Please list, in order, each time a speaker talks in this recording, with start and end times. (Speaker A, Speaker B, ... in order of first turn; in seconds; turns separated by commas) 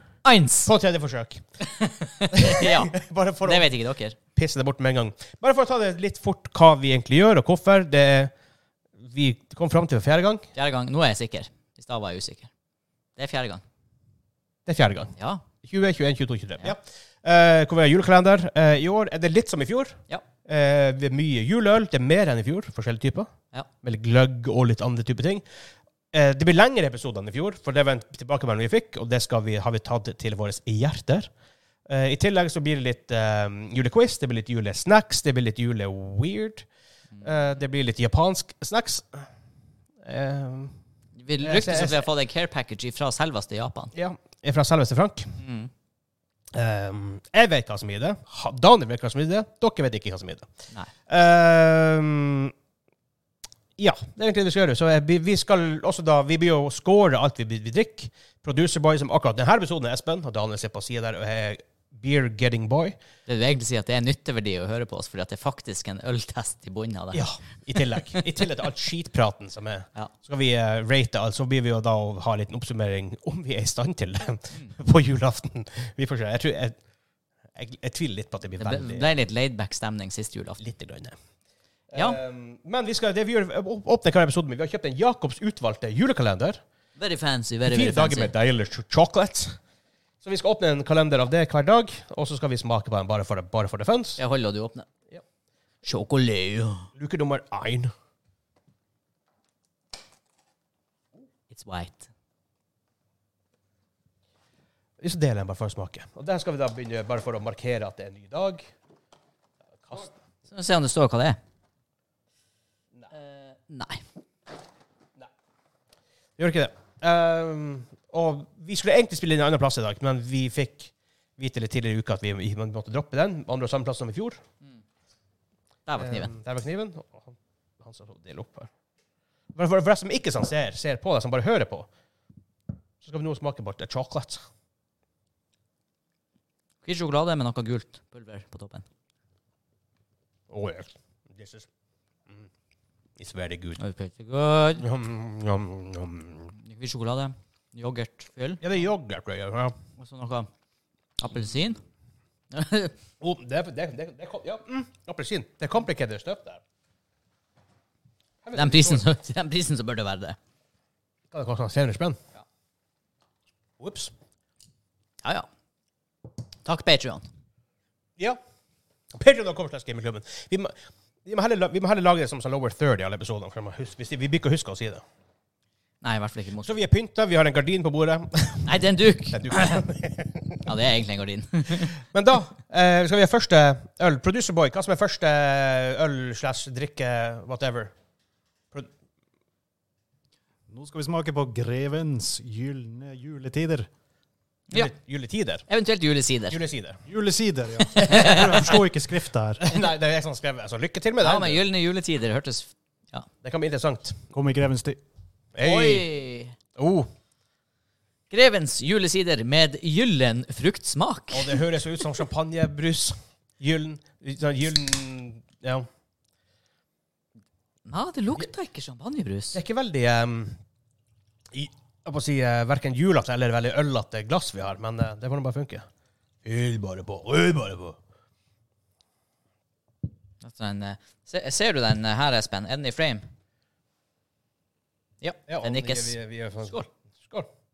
Speaker A: 0.2-0.7, Speaker B: 0.7-1.4, Speaker A: 1.7-4.2, Speaker B: 2.3-3.7, Speaker B: 4.3-8.3, Speaker B: 9.0-10.5, Speaker A: 10.6-12.5, Speaker A: 13.2-13.6, Speaker B: 14.7-23.3, Speaker A: 15.2-15.4, Speaker B: 23.8-25.5, Speaker B: 26.1-31.3, Speaker B: 31.9-36.7, Speaker B: 37.2-39.3, Speaker B: 40.0-40.8, Speaker A: 41.2-43.9, Speaker B: 41.4-42.1, Speaker B: 43.9-45.4, Speaker A: 45.4-45.7, Speaker B: 46.5-50.5, Speaker B: 51.1-52.5, Speaker B: 53.8-63.0, Speaker A: 63.3-68.2, Speaker B: 67.1-76.8, Speaker B: 77.6-79.1, Speaker A: 78.6-80.6, Speaker B: 80.6-81.2, Speaker B: 81.9-86.6, Speaker A: 81.9-82.2, Speaker A: 87.0-88.3, Speaker B: 87.7-89.6, Speaker B: 90.2-94.2, Speaker A: 94.2-94.9, Speaker A: 95.8-96.9, Speaker B: 97.0-97.9, Speaker A: 101.5-102.1, Speaker B: 105.0-108.7, Speaker B: 109.8-110.1, Speaker A: 110.5-111.4, Speaker A: 113.1-114.0, Speaker B: 116.4-124.4, Speaker A: 125.9-126.3, Speaker B: 126.0-128.7, Speaker B: 129.6-131.9, Speaker B: 133.0-134.4, Speaker A: 136.8-138.8, Speaker B: 140.5-141.7, Speaker B: 143.2-143.8, Speaker A: 143.8-144.9, Speaker B: 144.8-146.5, Speaker A: 146.6-148.6, Speaker B: 148.6-149.8, Speaker A: 150.0-150.5, Speaker A: 151.2-151.8, Speaker A: 152.5-152.9, Speaker B: 153.2-156.6, Speaker B: 158.4-159.1, Speaker A: 158.5-160.4, Speaker B: 161.3-162.2, Speaker B: 163.8-164.1, Speaker A: 165.2-165.5, Speaker A: 166.7-167.2, Speaker B: 169.1-170.7, Speaker B: 171.2-175.0, Speaker A: 176.0-176.7, Speaker B: 176.6-178.8, Speaker A: 178.7-179.8, Speaker B: 179.3-180.7, Speaker A: 180.7-181.9, Speaker B: 182.1-187.9, Speaker C: 190.7-193.9, Speaker B: 194.7-195.7, Speaker A: 195.7-196.6, Speaker B: 196.5-197.0, Speaker C: 197.1-199.7, Speaker A: 197.9-198.8, Speaker B: 198.1-198.6, Speaker B: 199.6-201.6, Speaker A: 201.2-203.3, Speaker B: 203.4-204.3, Speaker C: 204.3-205.0, Speaker B: 205.6-206.1, Speaker A: 205.6-206.6, Speaker B: 206.8-207.1, Speaker A: 208.3-211.6, Speaker B: 211.3-215.9, Speaker A: 217.8-219.6, Speaker B: 219.5-220.6, Speaker B: 221.5-225.9, Speaker B: 226.4-228.0, Speaker A: 230.4-233.3, Speaker A: 235.2-236.9, Speaker B: 235.5-237.5